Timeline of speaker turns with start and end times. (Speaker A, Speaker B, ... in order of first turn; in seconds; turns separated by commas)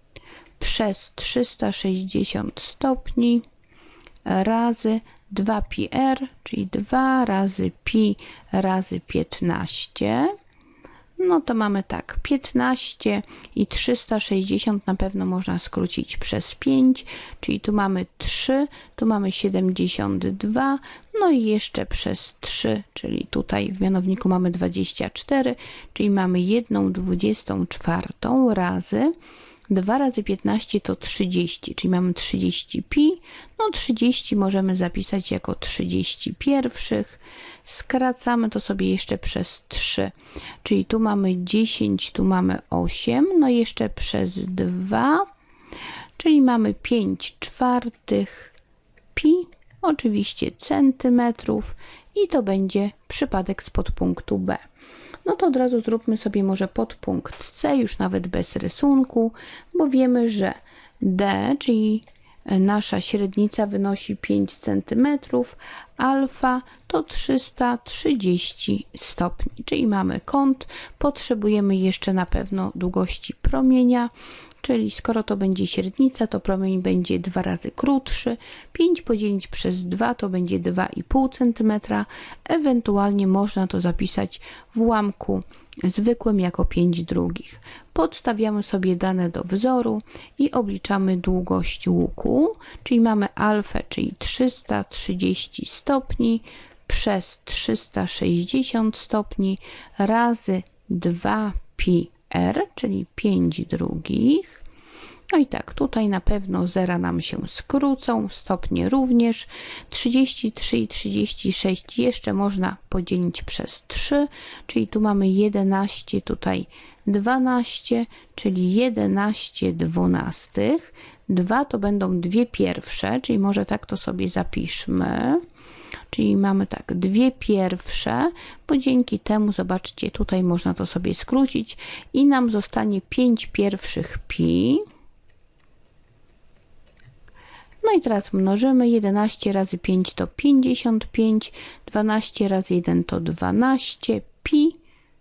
Speaker A: 0.6-3.4, Speaker A: 4.2-10.3, Speaker A: 11.2-29.1, Speaker A: 29.7-40.1, Speaker A: 40.6-45.2, Speaker A: 46.2-48.5, Speaker A: 49.1-54.6, Speaker A: 55.2-74.1, Speaker A: 74.6-104.6, Speaker A: 105.3-125.4, Speaker A: 126.1-134.8, Speaker A: 137.8-144.8